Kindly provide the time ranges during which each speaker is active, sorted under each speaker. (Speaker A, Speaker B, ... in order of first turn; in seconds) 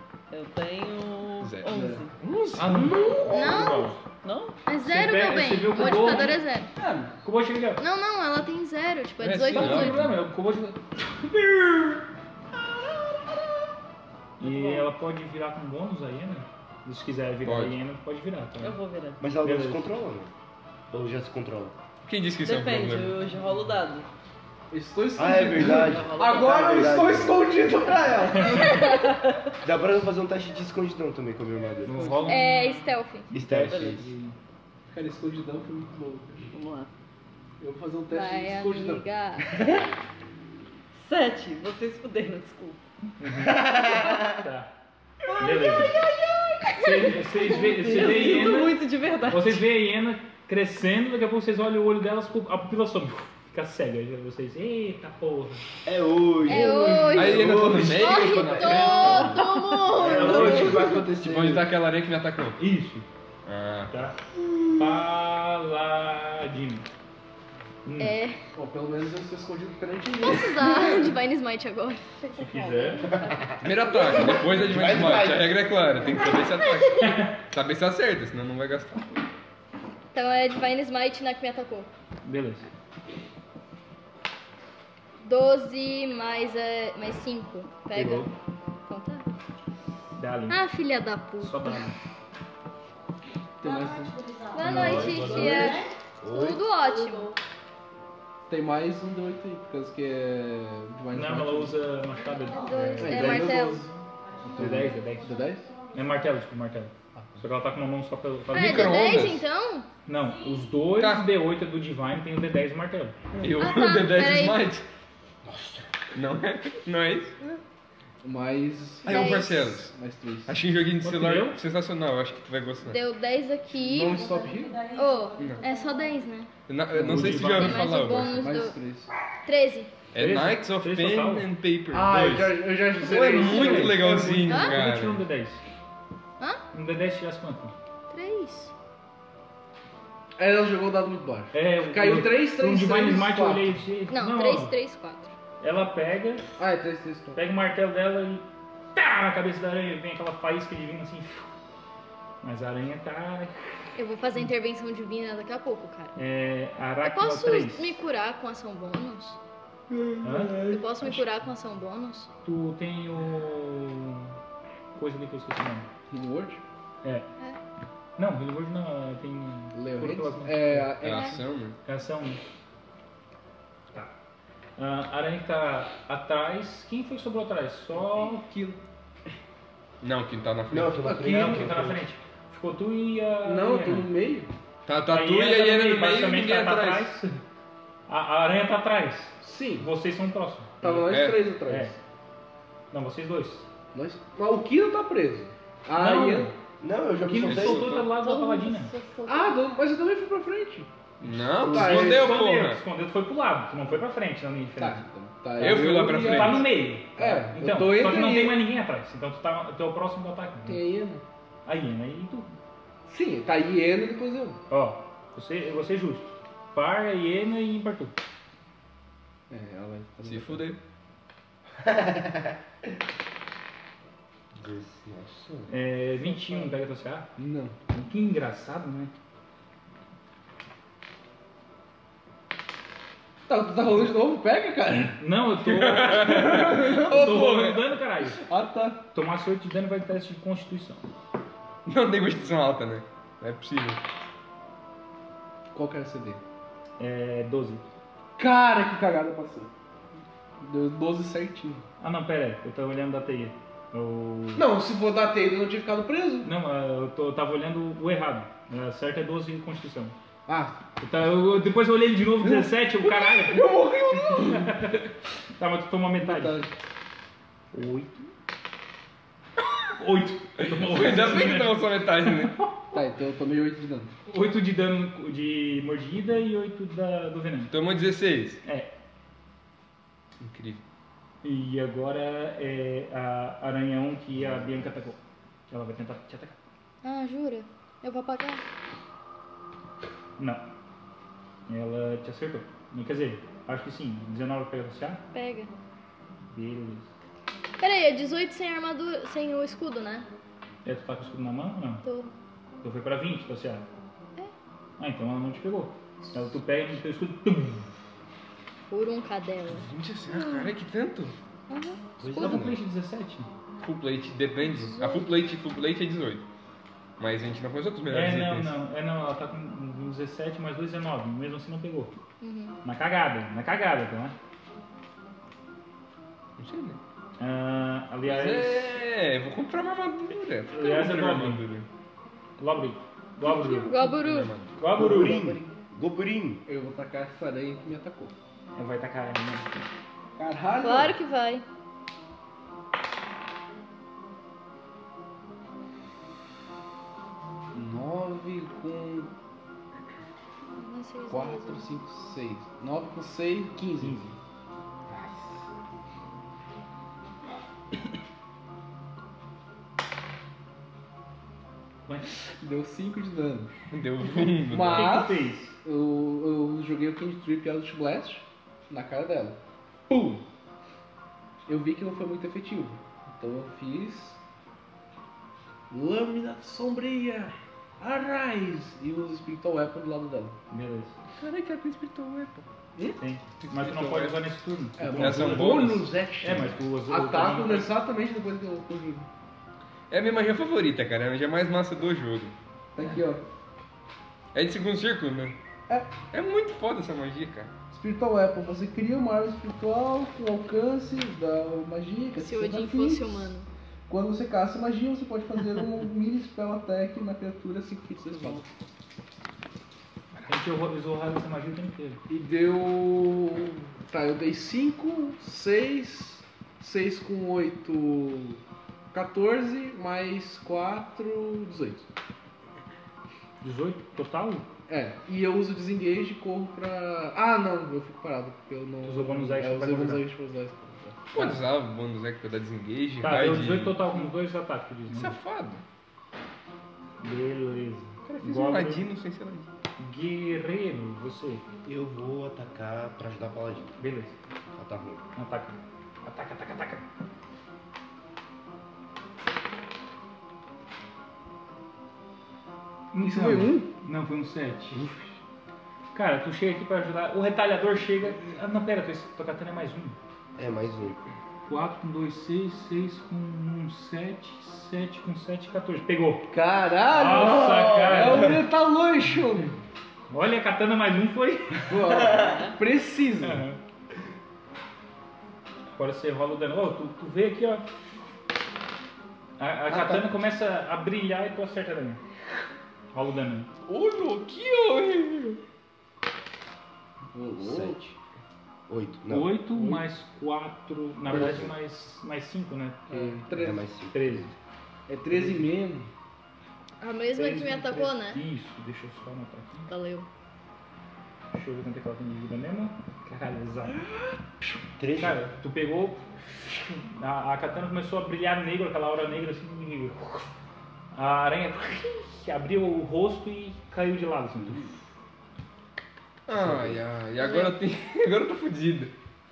Speaker A: 0.3-2.1, 4.2-4.6, 12.7-13.4, 14.4-14.9, 18.6-19.2, 22.4-24.1, 25.6-26.8, 28.5-29.4, 31.9-32.4, 33.7-34.1, 36.5-36.9, 41.0-42.8, 46.7-49.6, 58.7-60.3, 72.2-73.6, 198.2-199.6, 408.3-408.6, 472.3-472.8
Speaker B: 1.4-3.2, 9.2-10.2, 17.4-17.8, 22.1-23.1, 57.1-59.4, 61.2-62.6, 63.5-63.9, 73.6-79.0, 108.5-109.5, 111.0-111.3, 113.4-114.8, 116.1-117.4, 119.0-120.0, 120.5-123.0, 125.4-125.7, 126.7-128.6, 130.1-135.2, 171.0-171.8, 180.0-181.0, 184.9-187.1, 190.9-191.5, 197.4-198.1, 201.2-202.8, 205.6-206.7, 220.2-220.8, 235.6-237.9, 241.9-244.0, 270.6-272.6, 277.7-278.6, 280.4-280.8, 309.7-311.4, 313.8-316.4, 317.2-318.7, 326.6-327.0, 328.2-331.9, 334.2-334.8, 363.9-365.2, 381.4-382.6, 383.6-384.4, 385.2-386.1, 390.1-392.6, 394.5-395.6, 396.3-397.7, 431.3-434.1, 435.1-435.8, 438.3-439.7, 483.9-485.6, 516.5-519.1
Speaker C: 1.7-2.1, 2.7-3.4, 6.7-7.1, 24.7-28.8, 34.9-36.5, 37.6-39.1, 47.6-48.7, 60.0-61.6, 68.5-71.1, 93.6-95.8, 98.5-101.8, 103.0-103.9, 104.5-105.7, 118.2-120.6, 123.7-124.9, 126.9-127.5, 128.2-129.1, 131.9-134.2, 140.4-143.8, 146.6-147.4, 159.9-161.2, 166.1-166.6, 169.7-171.4, 178.0-178.8, 181.0-181.8, 183.4-184.5, 189.4-189.9, 190.8-192.0, 193.9-196.6, 199.3-202.5, 204.8-208.7, 210.7-211.2, 213.1-214.6, 219.5-220.7, 226.2-226.7, 227.4-227.8, 233.5-235.2, 236.4-237.4, 238.2-239.0, 245.7-246.4, 248.4-249.7, 250.6-251.9, 254.6-256.5, 260.4-260.8, 262.4-264.8, 266.2-266.7, 272.9-274.1, 336.6-338.4, 340.4-341.2, 347.7-349.3, 351.3-354.3, 355.1-355.6, 362.6-363.7, 364.7-370.4, 371.7-374.4, 375.9-380.6, 385.0-389.3, 392.9-393.4, 395.9-396.1, 397.9-403.5, 404.1-408.6, 412.3-418.6, 419.1-422.1, 424.9-431.4, 453.2-453.9, 466.5-469.7, 471.9-473.6, 487.3-488.0, 489.7-490.1, 491.3-491.6, 493.1-493.9, 495.1-496.1
Speaker D: 2.6-4.0, 4.8-6.4, 7.2-7.8, 9.5-12.1, 14.4-18.8, 19.4-19.9, 28.3-28.8, 31.8-34.4, 43.2-43.7, 44.3-44.7, 45.4-46.0, 46.8-55.6, 56.6-57.0, 60.1-60.8, 62.6-63.1, 63.9-64.2, 64.7-66.9, 67.8-68.2, 72.4-73.1, 77.0-77.3, 82.2-82.7, 87.9-88.3, 90.2-90.6, 91.4-92.0, 94.6-95.8, 101.1-103.7, 104.5-109.1, 110.1-113.2, 121.0-121.6, 127.0-127.9, 130.2-131.5, 133.0-135.6, 136.7-137.7, 141.5-144.8, 145.6-146.5, 147.3-151.5, 152.4-153.5, 156.2-157.9, 160.2-160.6, 162.4-164.3, 164.9-165.9, 168.2-171.1, 171.8-172.4, 174.8-178.4, 181.2-184.1, 185.1-187.4, 188.1-191.0, 191.7-191.9, 192.9-193.7, 195.9-196.6, 197.2-198.9, 201.6-205.1, 205.6-210.8, 211.7-212.5, 214.7-218.1, 225.7-227.3, 227.9-229.1, 235.1-238.4, 239.1-241.1, 247.0-247.8, 252.0-254.7, 256.4-260.1, 261.0-266.7, 267.7-268.3, 270.0-272.7, 274.3-277.7, 278.6-278.9, 281.4-285.2, 285.7-286.6, 290.4-290.6, 291.7-295.2, 296.5-297.1, 300.9-302.0, 302.8-303.9, 305.0-307.9, 312.4-313.5, 318.1-322.1, 322.8-324.4, 327.4-329.0, 330.7-331.6, 332.6-333.9, 334.8-335.6, 338.7-339.9, 354.0-354.3, 362.1-362.3, 364.8-365.7, 380.7-381.1, 383.2-387.9, 410.4-412.2, 423.6-424.7, 429.0-430.2, 431.4-431.6, 433.2-435.4, 437.2-439.1, 440.0-441.6, 444.0-444.3, 445.4-447.0, 453.1-455.0, 456.1-460.2, 461.7-466.5, 467.1-468.6, 470.3-472.0, 473.4-473.8, 475.9-477.9, 479.6-482.2, 483.1-483.7, 489.3-493.4, 494.1-494.5, 495.3-495.7, 497.4-499.9, 501.5-504.0, 505.1-510.5, 511.1-514.9
Speaker E: 3.3-4.0, 4.7-6.7, 7.8-10.1, 28.6-29.1, 32.3-33.3, 38.1-39.6, 56.5-60.8, 68.0-68.4, 70.2-72.0, 76.2-77.1, 80.1-81.9, 85.2-88.3, 88.9-89.3, 90.5-91.8, 94.5-97.3, 102.5-103.9, 108.5-109.9, 113.6-114.6, 119.0-119.6, 122.9-124.3, 124.8-126.5, 127.4-128.8, 129.4-129.9, 134.5-134.8, 138.1-138.7, 144.1-145.3, 153.9-156.2, 157.0-159.4, 160.7-162.3, 287.0-288.6, 295.3-295.7, 297.8-300.3, 302.0-302.3, 308.9-310.7, 311.7-312.6, 314.6-315.3, 322.4-322.8, 333.4-334.6, 340.8-341.6, 350.7-351.9, 402.4-403.7, 497.0-498.4, 499.9-500.3, 517.4-517.7
Speaker F: 19.2-20.3, 20.9-21.8, 25.1-27.9, 29.6-32.2, 33.3-34.0, 43.5-44.2, 55.9-59.4, 60.0-61.6, 73.1-75.8, 96.2-96.6, 115.4-115.9, 180.7-182.0, 196.8-198.1, 221.8-222.6, 224.5-225.7, 312.2-312.8, 334.9-336.6, 441.9-443.9, 444.7-445.2, 460.6-461.2, 479.9-480.3, 487.6-488.1, 488.9-489.6, 491.3-491.7, 493.5-494.5, 505.0-505.5, 516.5-517.0